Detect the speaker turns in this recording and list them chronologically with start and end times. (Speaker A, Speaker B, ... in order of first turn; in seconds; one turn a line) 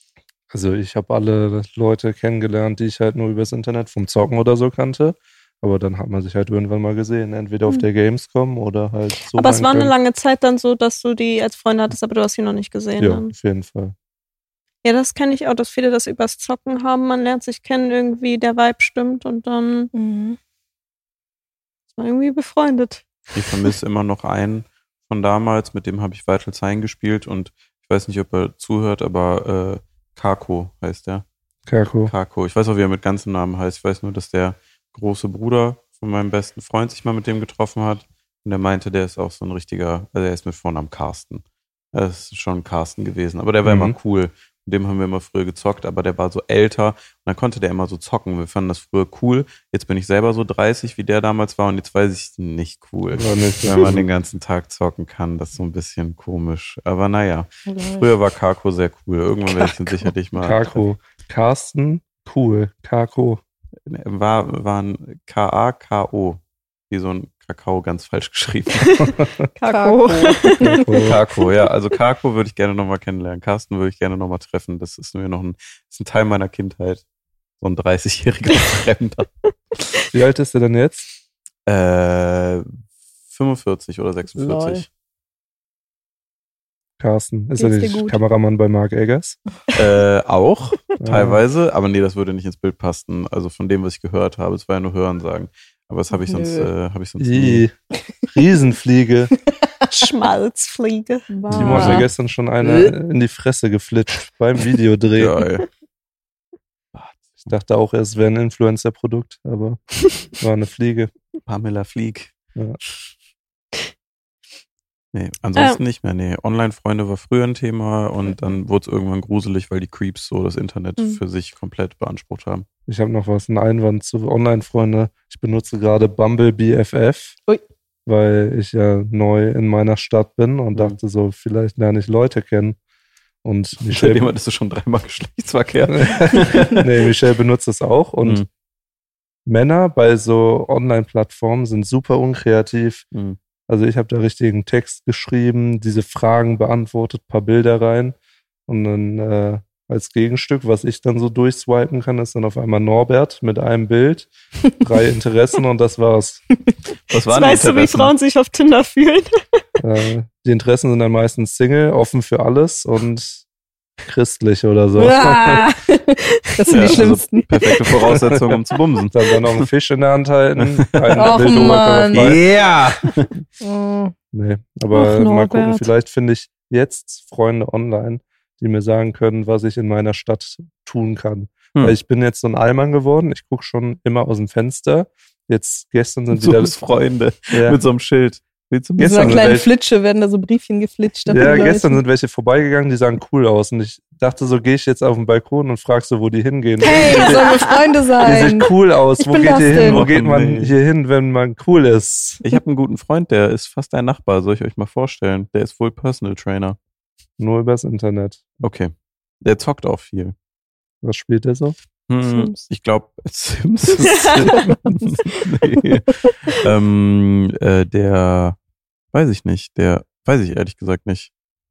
Speaker A: 0.5-9.9
Speaker B: 9.3-13.3
Speaker A: 13.0-13.9
Speaker B: 14.8-19.9
Speaker C: 19.9-20.4
Speaker B: 22.0-23.1
Speaker D: 23.3-31.2
Speaker A: 31.6-32.1
Speaker D: 32.0-60.8
Speaker A: 43.6-44.0
Speaker A: 53.1-54.1
Speaker C: 57.6-58.1
Speaker C: 59.5-60.1
Speaker A: 60.4-63.4
Speaker D: 63.9-69.1
Speaker B: 68.8-71.0
Speaker A: 69.2-69.4
Speaker C: 69.7-71.0
Speaker A: 70.6-71.2
Speaker D: 71.0-77.0
Speaker D: 77.6-79.3
Speaker A: 80.1-81.1
Speaker D: 81.7-82.7
Speaker D: 83.3-84.8
Speaker C: 84.3-84.8
Speaker A: 87.0-89.4
Speaker C: 87.6-88.2
Speaker D: 89.7-97.6
Speaker A: 91.0-91.4
Speaker C: 96.1-96.7
Speaker A: 97.2-97.7
Speaker A: 98.3-99.3
Speaker B: 99.9-101.3
Speaker C: 101.3-102.1
Speaker A: 101.5-105.4
Speaker D: 101.5-102.0
Speaker C: 102.6-102.9
Speaker D: 105.1-105.7
Speaker D: 106.9-107.5
Speaker A: 107.5-109.8
Speaker A: 110.4-111.1
Speaker D: 111.5-112.3
Speaker D: 115.1-122.7
Speaker B: 115.5-115.8
Speaker A: 122.9-127.3
Speaker A: 128.1-132.8
Speaker A: 133.4-134.3
Speaker D: 133.8-136.9
Speaker A: 135.9-138.4
Speaker A: 139.5-143.0
Speaker A: 143.7-148.2
Speaker A: 148.7-156.4
Speaker D: 157.1-158.1
Speaker B: 157.2-159.6
Speaker A: 159.8-163.4
Speaker A: 164.0-165.7
Speaker C: 165.0-167.9
Speaker B: 166.6-167.0
Speaker D: 166.7-169.7
Speaker A: 168.2-168.6
Speaker A: 169.1-172.4
Speaker D: 170.6-173.3
Speaker C: 171.2-172.3
Speaker C: 173.6-174.1
Speaker A: 174.3-186.7
Speaker C: 174.9-175.9
Speaker D: 186.3-189.6
Speaker A: 187.5-187.8
Speaker C: 189.0-192.0
Speaker A: 189.1-189.7
Speaker A: 191.2-197.4
Speaker C: 196.8-200.1
Speaker B: 196.8-197.8
Speaker A: 198.2-202.4
Speaker D: 199.7-200.8
Speaker D: 202.4-206.8
Speaker A: 207.4-208.4
Speaker D: 208.6-210.3
Speaker A: 211.0-211.8
Speaker D: 212.1-218.6
Speaker C: 212.2-212.6
Speaker B: 214.0-214.7
Speaker C: 214.5-215.1
Speaker D: 219.1-221.3